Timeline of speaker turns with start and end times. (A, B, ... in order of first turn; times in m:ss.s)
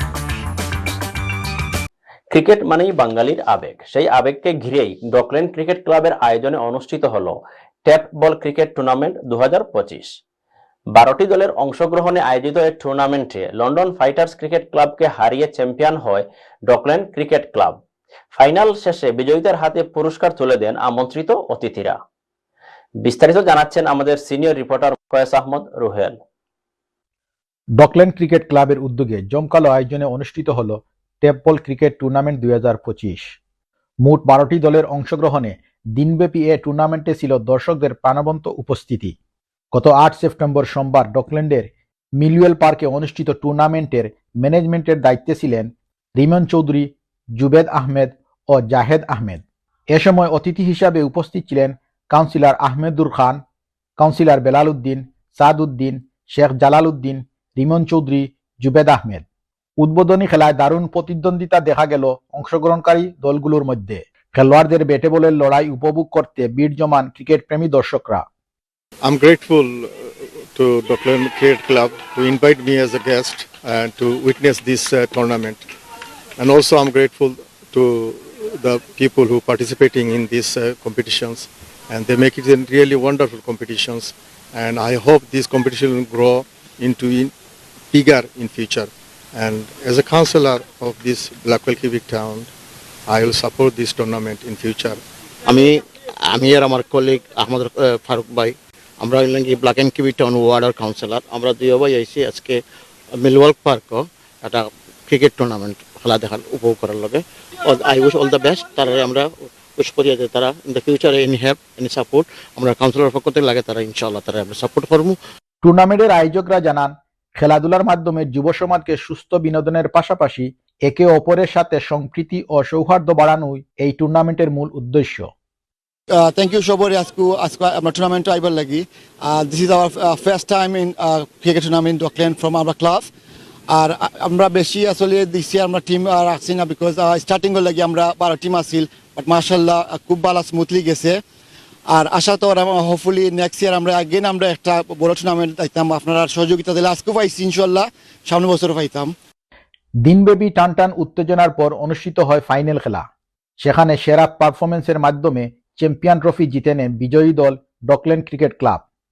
0:02.3-0:10.1 A
0:10.9-0:17.8 A
0:18.3-0:22.0 A
0:23.0-0:26.2 A
0:27.8-0:33.4 B
0:34.0-0:39.2 B
0:39.7-0:53.4 B
0:54.0-0:59.2 B
0:59.8-1:08.2 B
1:09.0-1:09.9 C
1:10.6-1:15.6 C
1:16.4-1:27.3 C
1:27.9-1:32.5 C
1:33.1-1:35.0 C
1:36.3-1:42.6 D
1:43.2-1:55.2 D
1:55.6-2:05.3 B
2:06.2-2:13.1 E
2:13.7-2:21.2 E
2:21.9-2:29.2 E
2:30.0-2:33.0 B
2:33.6-2:38.8 B